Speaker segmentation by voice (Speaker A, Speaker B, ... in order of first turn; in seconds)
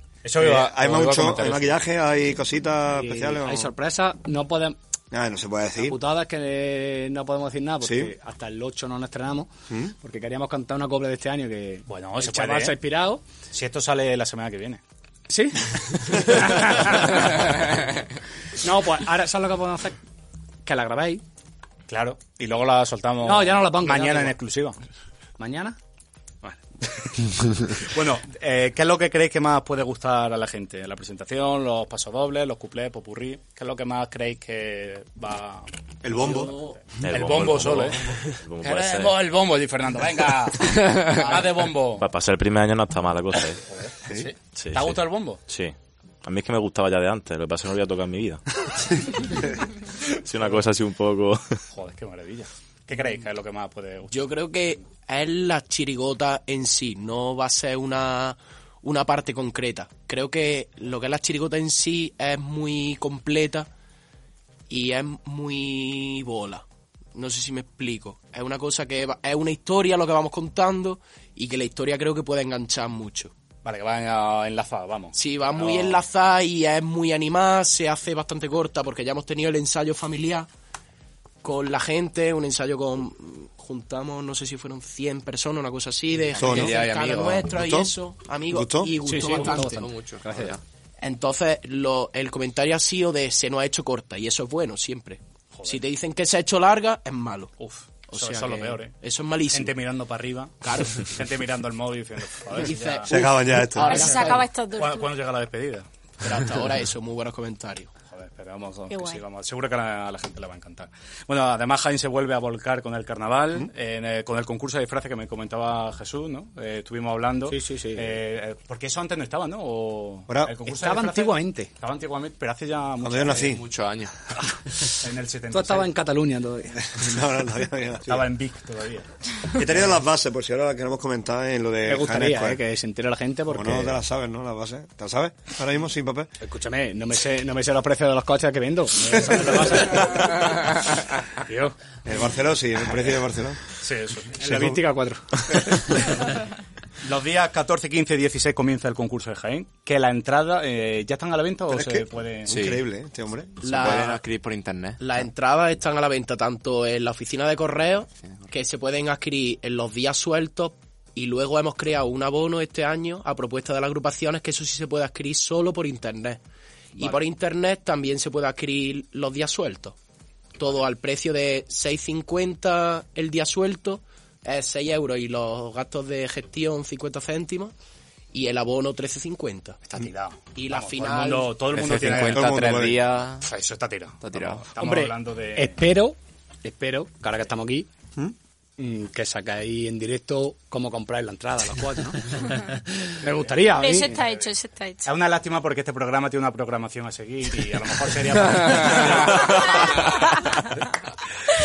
Speaker A: 0.2-1.8, 11.9-12.8, 13.5-14.8, 16.5-17.2, 21.9-24.8, 27.8-35.7, 36.2-36.4, 37.0-42.0, 43.7-45.4, 51.7-54.3, 73.6-76.0, 95.5-95.8, 97.6-98.9, 99.5-103.2, 103.9-104.2, 104.7-105.8, 108.1-123.6, 125.0-125.9, 128.1-129.1, 143.8-144.3, 147.0-152.6, 179.8-182.6, 183.4-185.8, 193.8-194.5, 195.0-200.8
Speaker B: 0.4-3.7, 5.1-6.0, 7.8-8.1, 9.7-9.9, 36.0-36.5, 86.3-86.8, 87.5-87.9, 88.5-88.9, 103.1-104.1, 123.0-123.6, 126.9-128.2, 129.5-132.6, 133.5-136.3, 142.1-143.6, 144.4-144.8, 151.7-153.6, 182.0-183.2
Speaker C: 2.9-4.8, 5.8-13.2, 15.3-17.6, 18.6-20.0, 20.6-21.2, 23.2-24.4, 25.4-25.8, 89.0-90.5, 117.5-118.2, 120.7-121.7, 125.5-126.8, 131.8-134.0, 136.4-140.4, 141.4-141.7, 144.4-145.8, 184.8-187.9, 188.8-194.2
Speaker D: 36.1-36.8, 54.1-63.7, 64.7-73.3, 75.1-80.5, 81.4-89.9, 91.0-97.5, 98.1-99.8, 100.6-101.1, 102.5-104.4, 106.2-107.9, 153.6-154.2, 155.0-166.4, 166.9-169.9, 170.6-177.7, 178.3-179.8, 180.5-181.6
Speaker E: 37.0-39.1, 42.0-43.6, 44.5-48.4, 50.2-51.4
Speaker F: 86.3-87.5, 89.2-90.6, 123.3-124.1, 152.5-152.8, 153.6-155.0, 181.7-183.4, 184.2-184.7
Speaker G: 103.8-105.1, 108.9-109.2, 193.7-195.1